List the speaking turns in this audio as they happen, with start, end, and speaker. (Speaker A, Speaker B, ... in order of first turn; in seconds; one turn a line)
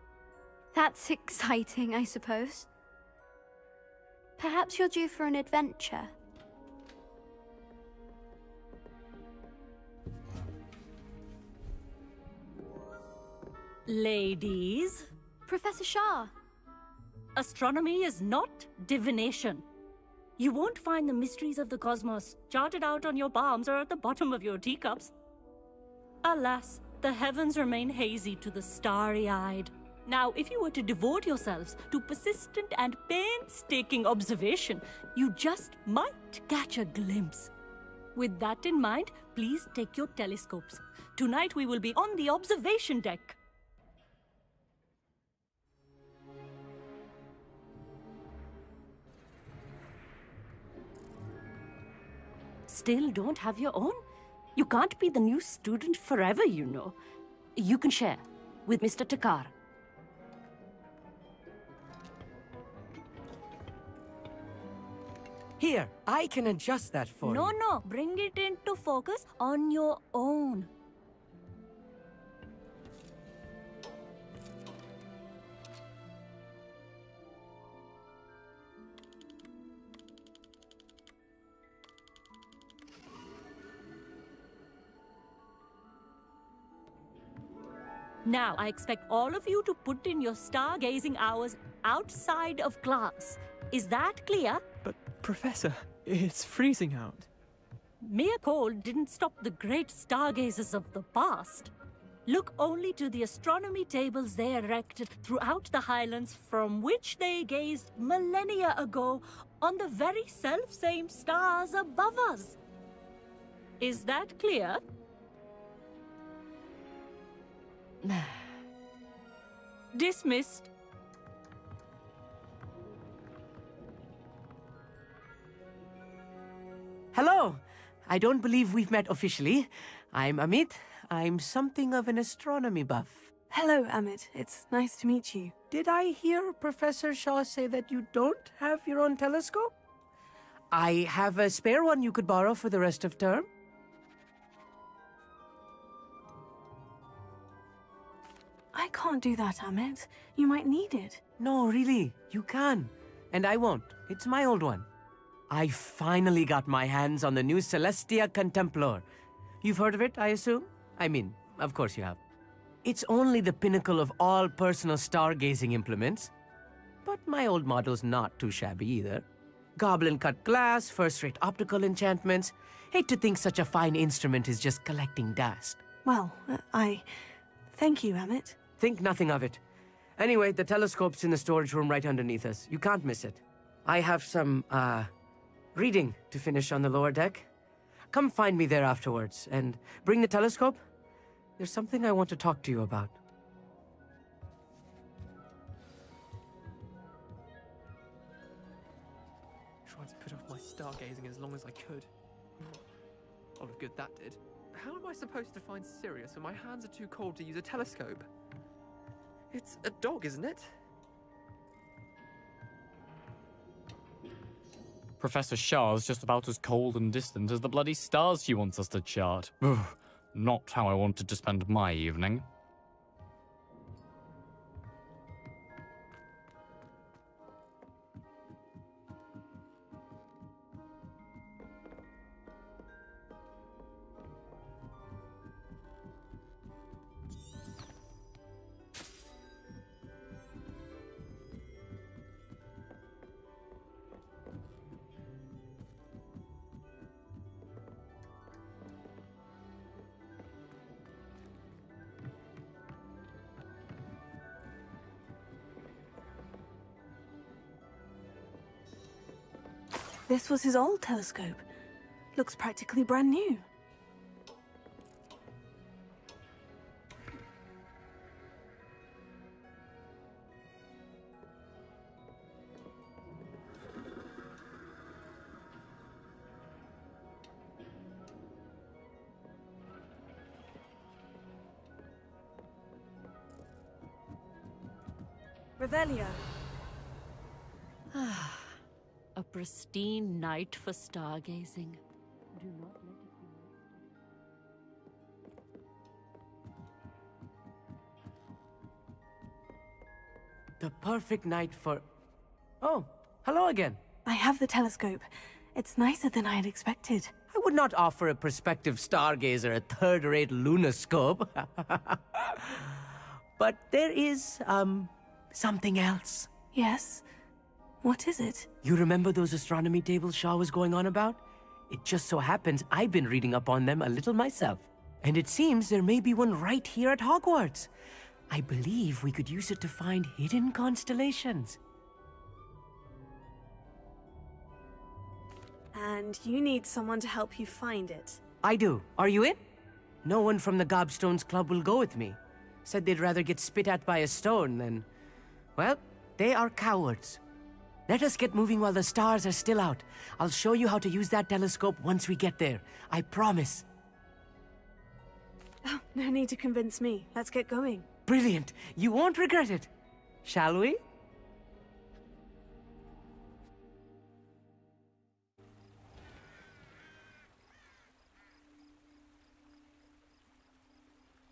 Speaker A: 0.7-2.7
Speaker A: 4.4-6.1
Speaker B: 13.9-15.0
Speaker A: 15.5-16.3
Speaker B: 17.4-19.6
Speaker B: 20.4-25.1
Speaker B: 26.2-37.5
Speaker B: 38.1-43.4
Speaker B: 52.7-54.0
Speaker B: 54.6-57.0
Speaker B: 57.6-59.5
Speaker C: 65.6-67.5
Speaker B: 67.2-70.7
Speaker B: 88.2-94.6
Speaker D: 95.0-95.3
Speaker B: 98.0-101.7
Speaker B: 102.3-112.6
Speaker B: 113.8-114.8
Speaker B: 119.9-120.7
Speaker C: 127.1-133.3
Speaker E: 133.5-135.5
Speaker C: 135.7-139.7
Speaker C: 140.7-143.5
Speaker E: 148.7-151.2
Speaker C: 151.4-154.9
Speaker C: 155.5-159.1
Speaker C: 159.6-162.2
Speaker C: 162.8-166.3
Speaker C: 167.1-169.3
Speaker C: 169.8-175.8
Speaker E: 176.1-177.1
Speaker E: 177.7-178.6
Speaker C: 178.8-179.6
Speaker C: 180.2-185.1
Speaker C: 185.8-187.5
Speaker C: 188.1-190.8
Speaker C: 191.6-193.2
Speaker D: 199.9-202.8
Speaker D: 203.6-208.3
Speaker D: 209.5-210.7
Speaker F: 215.2-222.5
Speaker E: 260.3-261.6
Speaker E: 262.4-263.6
Speaker E: 285.8-286.4
Speaker B: 289.4-292.0
Speaker B: 292.5-293.7
Speaker C: 300.8-302.1
Speaker C: 302.8-304.0
Speaker E: 304.2-307.3
Speaker C: 307.5-316.5
Speaker E: 316.7-317.2
Speaker E: 318.0-318.7
Speaker C: 318.8-327.9
Speaker C: 328.5-331.8
Speaker E: 335.9-338.4
Speaker C: 338.6-339.6
Speaker C: 340.2-345.1
Speaker C: 345.8-347.4
Speaker C: 348.1-353.9
Speaker E: 355.8-358.1
Speaker C: 358.3-359.9
Speaker C: 360.4-361.0